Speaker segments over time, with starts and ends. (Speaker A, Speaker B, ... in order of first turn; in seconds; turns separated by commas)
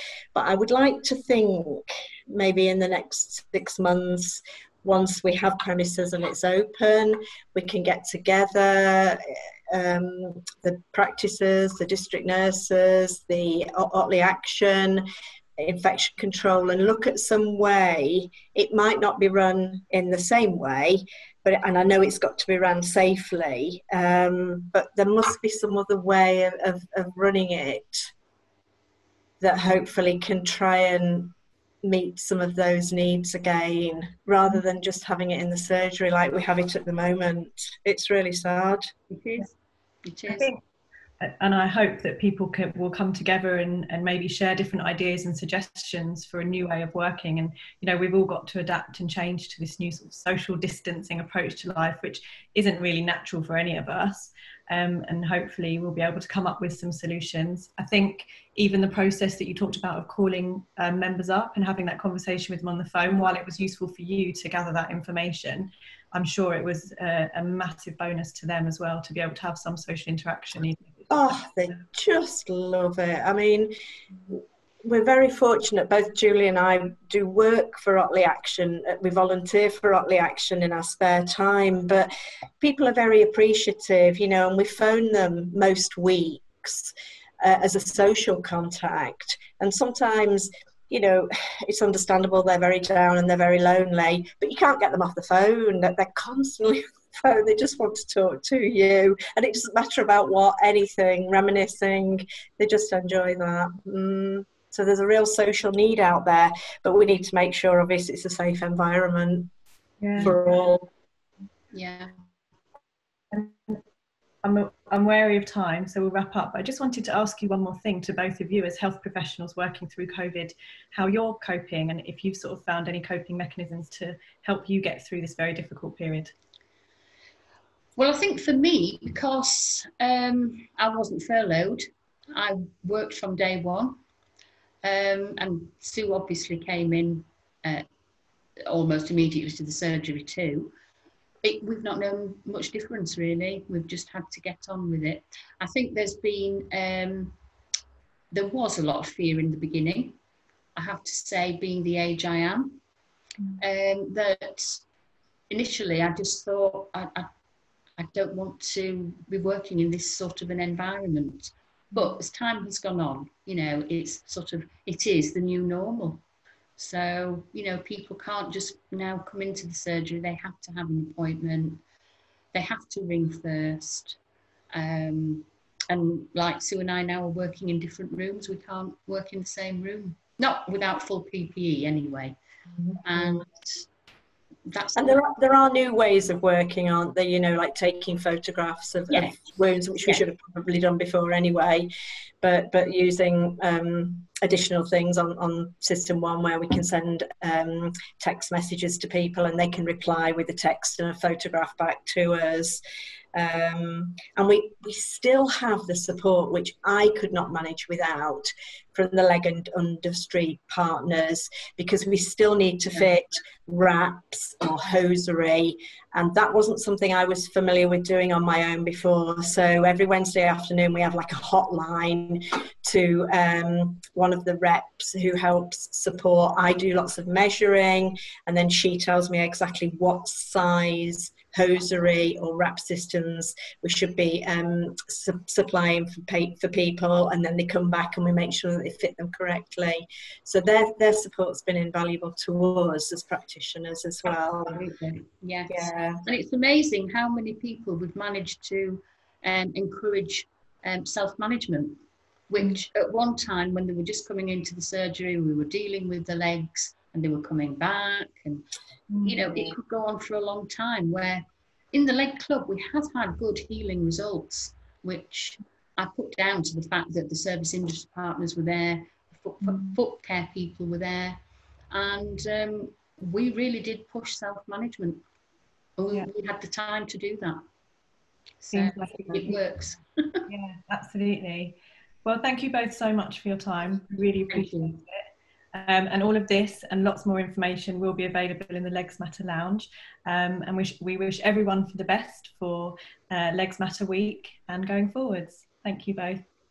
Speaker A: 0.3-9.2, Speaker A: 9.7-15.0, Speaker A: 15.6-28.1, Speaker A: 29.4-31.3, Speaker A: 31.8-38.9, Speaker B: 39.1-40.5, Speaker C: 40.3-40.6, Speaker C: 41.2-71.0, Speaker A: 71.1-73.7, Speaker A: 74.3-82.1, Speaker A: 82.6-109.5, Speaker C: 110.0-110.4, Speaker A: 110.2-110.8, Speaker B: 111.7-112.1, Speaker C: 113.3-113.8, Speaker C: 114.4-126.3, Speaker B: 128.0-134.0, Speaker B: 134.8-137.8, Speaker B: 138.7-140.7, Speaker B: 141.4-147.4, Speaker B: 148.3-150.2, Speaker B: 150.7-152.8, Speaker B: 153.6-154.8, Speaker B: 155.5-157.3, Speaker B: 158.0-166.2, Speaker B: 166.8-171.8, Speaker B: 172.5-174.2, Speaker B: 174.7-182.3, Speaker A: 182.8-183.4, Speaker B: 183.0-183.8, Speaker B: 184.7-185.2, Speaker A: 184.9-191.9, Speaker B: 189.1-189.4, Speaker A: 192.4-202.8, Speaker A: 203.3-244.8, Speaker B: 244.7-258.7, Speaker A: 245.7-246.2, Speaker C: 259.1-259.4, Speaker B: 259.2-271.4, Speaker C: 269.6-270.0, Speaker B: 271.9-275.2, Speaker B: 276.0-277.6, Speaker B: 278.6-280.4, Speaker C: 278.7-279.6, Speaker C: 280.5-285.1, Speaker B: 284.5-285.0, Speaker C: 285.7-296.4